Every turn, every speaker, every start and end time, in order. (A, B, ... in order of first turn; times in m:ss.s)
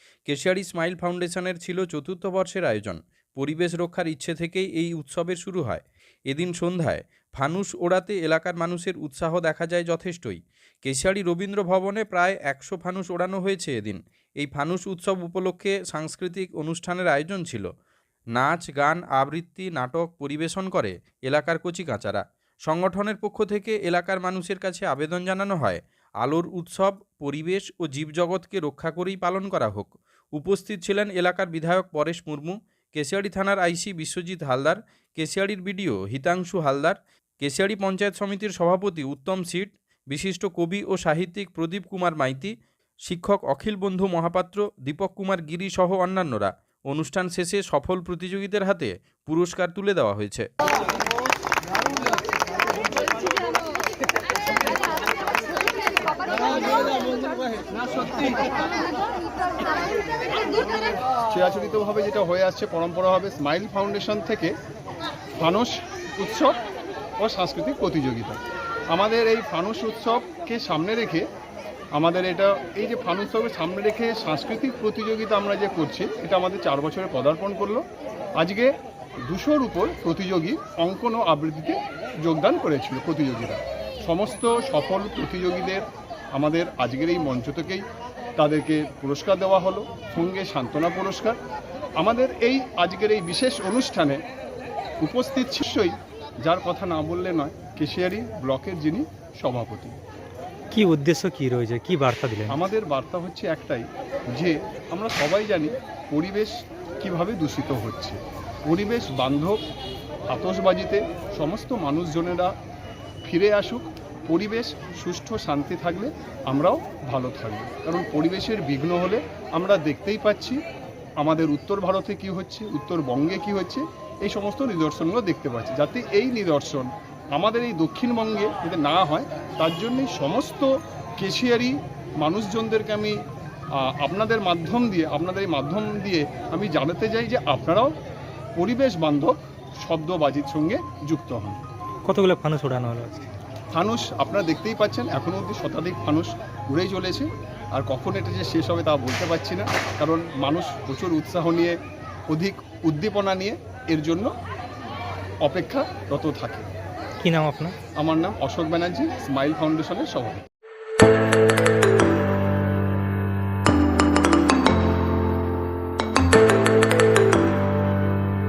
0:00.3-0:17.7 A
0:18.3-0:42.5 A
0:43.1-0:50.5 A
1:01.3-1:04.5 B
1:05.4-1:06.6 B
1:07.2-1:08.4 B
1:08.9-1:11.2 B
1:12.0-1:17.8 B
1:18.4-1:18.7 B
1:19.3-1:27.8 B
1:28.4-1:31.4 B
1:32.0-1:34.2 B
1:35.0-1:40.0 B
1:40.7-1:42.6 C
1:42.5-1:49.6 B
1:50.3-1:52.5 B
1:53.2-2:00.6 B
2:01.2-2:13.2 B
2:13.8-2:17.9 B
2:18.6-2:21.6 B
2:22.0-2:23.2 C
2:23.7-2:31.8 B
2:32.3-2:34.3 B
2:35.4-2:36.7 B
2:37.2-2:37.7 C
2:38.0-2:40.4 B